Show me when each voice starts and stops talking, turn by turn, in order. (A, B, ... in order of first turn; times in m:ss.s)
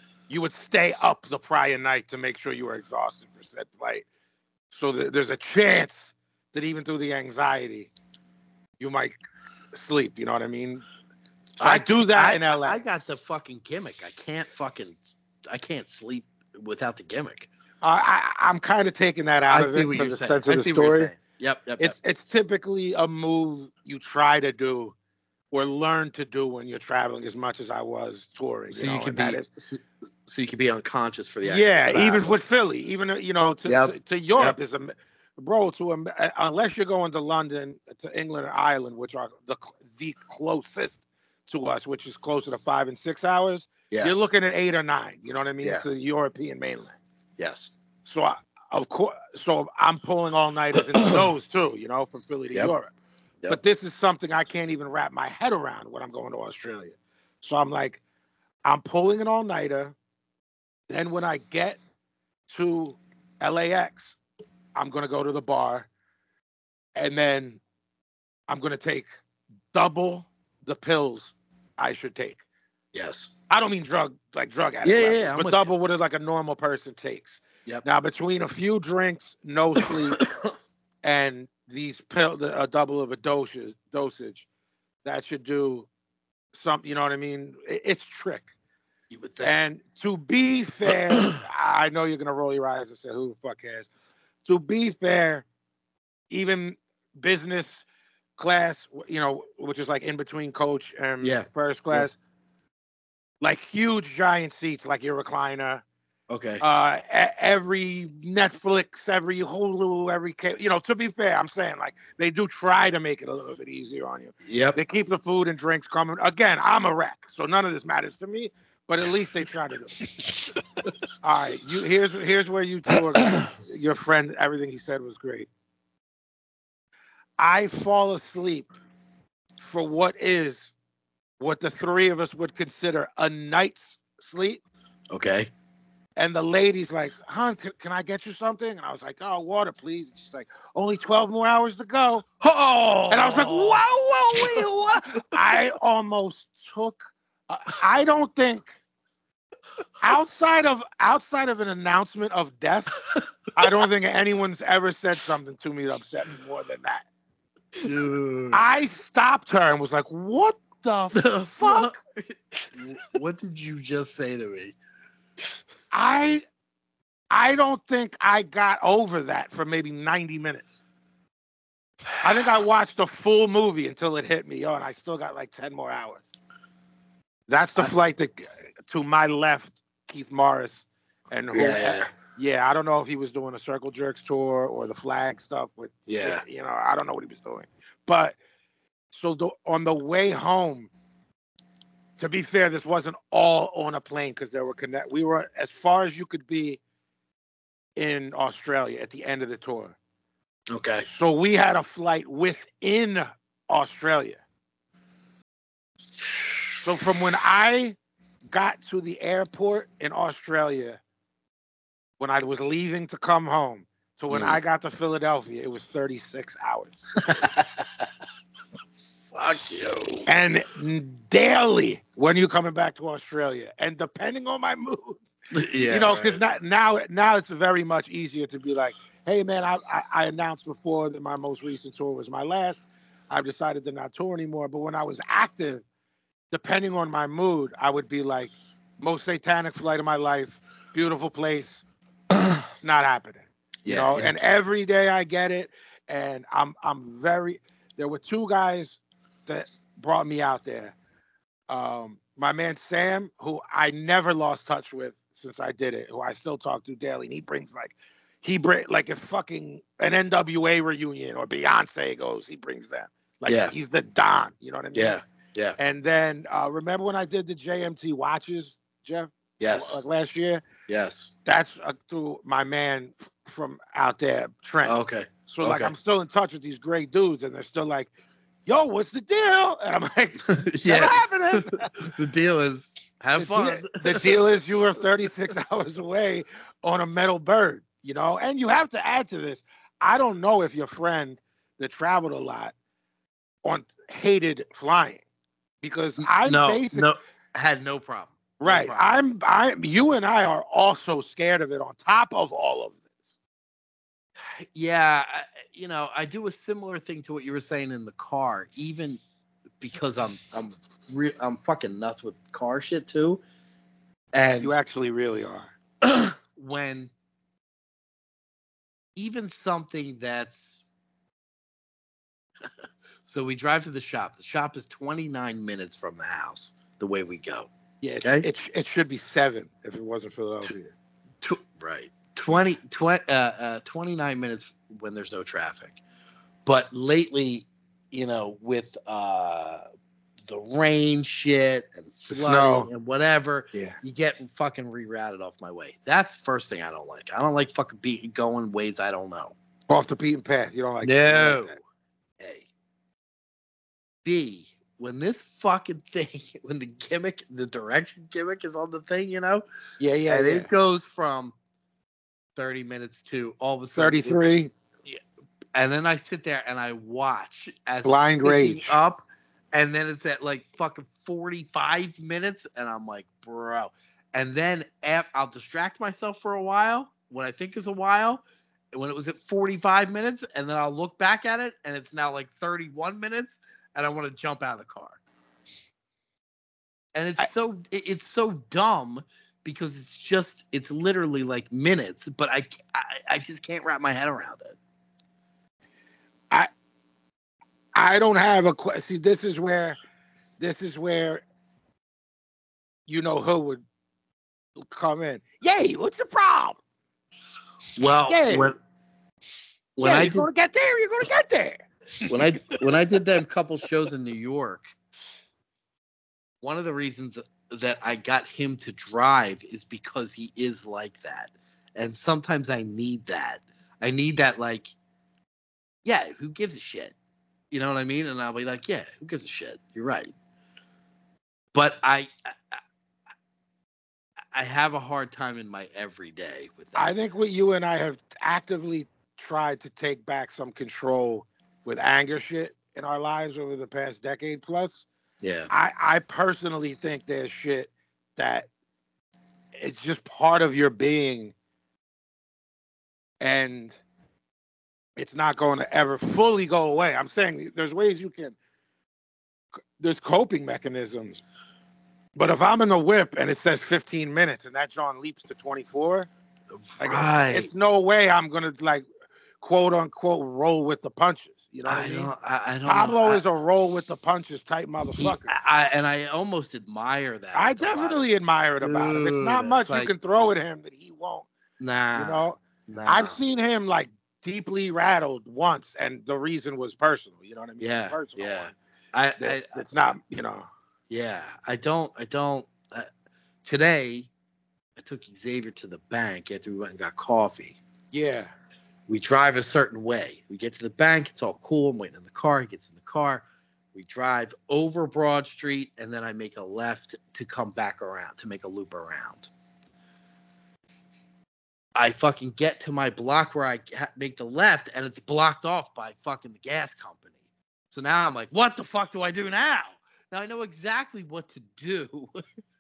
0:00.3-0:04.1 A
0:04.7-0:07.9 A
0:08.8-0:09.2 A
0:09.7-0:10.8 A
0:11.6-0:12.8 A
0:11.6-0:17.5 B
0:17.8-0:21.1 A
0:19.5-0:22.0 B
0:21.8-0:25.0 A
0:25.5-0:29.5 A
0:28.7-0:32.4 B
0:31.4-0:47.0 A
0:33.7-0:34.6 B
0:47.4-0:47.7 B
0:48.0-0:52.9 A
0:51.0-0:51.2 B
0:53.5-0:58.0 A
0:58.6-1:00.0 A
1:00.9-1:01.8 A
1:02.5-1:04.2 A
1:04.8-1:05.9 A
1:07.0-1:07.6 A
1:08.5-1:09.1 A
1:09.7-1:12.4 A
1:12.9-1:13.3 B
1:13.5-1:20.2 A
1:14.8-1:15.7 B
1:20.1-1:20.5 B
1:21.0-1:24.5 A
1:25.0-1:25.9 A
1:26.5-1:28.5 A
1:29.1-1:29.6 B
1:29.4-1:33.9 A
1:31.1-1:31.4 B
1:34.4-1:35.4 A
1:36.3-1:37.8 A
1:38.4-1:42.2 A
1:41.2-1:42.1 B
1:43.4-1:45.8 A
1:46.3-1:46.6 B
1:46.6-2:00.0 A
1:54.4-1:54.8 B
2:01.2-2:05.5 A
2:07.4-2:08.7 A
2:09.6-2:10.7 A
2:11.4-2:14.6 A
2:15.1-2:15.5 B
2:16.2-2:22.2 A
2:22.4-2:23.8 B
2:23.1-2:28.8 A
2:30.0-2:33.0 A
2:33.6-2:37.1 A
2:37.8-2:38.6 B
2:38.5-2:42.0 A
2:41.1-2:44.8 B
2:45.9-2:46.4 A
2:47.3-2:50.8 A
2:52.2-2:56.3 A
2:57.5-3:08.4 A
3:01.5-3:02.1 B
3:06.1-3:06.4 B
3:09.1-3:10.9 A
3:12.2-3:16.8 A
3:18.0-3:20.0 A
3:20.7-3:21.1 B
3:21.0-3:24.4 A
3:26.2-3:26.8 B
3:26.8-3:28.0 A
3:28.5-3:31.0 A
3:32.2-3:37.0 A
3:34.3-3:34.6 B
3:37.2-3:38.0 B
3:39.3-3:40.3 B
3:40.3-3:45.2 A
3:45.5-3:46.4 B
3:45.8-3:55.8 A
3:56.5-4:01.8 A
4:02.8-4:11.0 A
4:03.8-4:04.4 B
4:11.7-4:25.2 A
4:23.5-4:23.7 B
4:24.9-4:25.8 B
4:25.8-4:30.6 A
4:29.6-4:30.0 B
4:30.9-4:31.3 B
4:31.5-4:38.1 A
4:34.8-4:35.9 B
4:38.7-4:41.9 A
4:40.5-4:44.4 B
4:43.4-4:52.7 A
4:53.6-4:55.2 A
4:55.8-4:57.1 A
4:56.2-4:59.1 B
4:58.6-5:03.4 A
5:04.7-5:09.2 B
5:09.8-5:13.4 B
5:14.3-5:14.8 B
5:14.6-5:15.7 A
5:16.0-5:17.1 B
5:19.2-5:20.8 B
5:23.3-5:27.7 B
5:28.0-5:30.9 A
5:28.2-5:28.5 B
5:31.4-5:36.0 B
5:36.7-5:39.8 B
5:40.5-5:49.6 B
5:42.3-5:42.9 A
5:49.9-5:51.8 A
5:51.0-5:51.8 B
5:52.4-5:52.7 B
5:54.2-5:59.6 B
6:00.0-6:00.7 A
6:00.3-6:01.6 B
6:02.6-6:04.5 B
6:04.0-6:04.7 A
6:05.7-6:25.2 B
6:08.0-6:09.0 A
6:27.2-6:34.8 B
6:37.9-6:40.0 A
6:40.6-6:41.4 A
6:43.1-6:43.8 A
6:44.8-6:46.8 A
6:48.0-6:48.8 B
6:48.3-6:48.8 A
6:50.0-6:50.5 B
6:50.0-6:51.9 A
6:52.3-6:54.9 B
6:56.6-7:04.9 B
7:06.0-7:07.2 B
7:07.7-7:10.3 B
7:11.7-7:12.8 B
7:14.5-7:17.1 B
7:17.0-7:25.1 A
7:25.4-7:25.7 B
7:25.7-7:28.7 A
7:29.8-7:31.5 A
7:33.4-7:34.0 A
7:35.2-7:38.6 A
7:40.0-7:41.4 A
7:42.4-7:46.3 A
7:46.7-7:47.7 B
7:47.0-7:49.1 A
7:49.6-7:52.3 A
7:51.8-7:53.4 B
7:52.9-7:55.5 A
7:55.2-7:58.2 B
7:57.5-8:01.5 A
7:58.8-8:00.1 B
8:01.8-8:03.4 B
8:02.2-8:08.7 A
8:07.8-8:10.1 B
8:09.4-8:10.7 A
8:11.1-8:13.1 B
8:13.6-8:14.3 B
8:15.0-8:17.8 B
8:18.1-8:18.5 A
8:19.1-8:29.5 B
8:32.0-8:37.3 B
8:37.9-8:42.4 B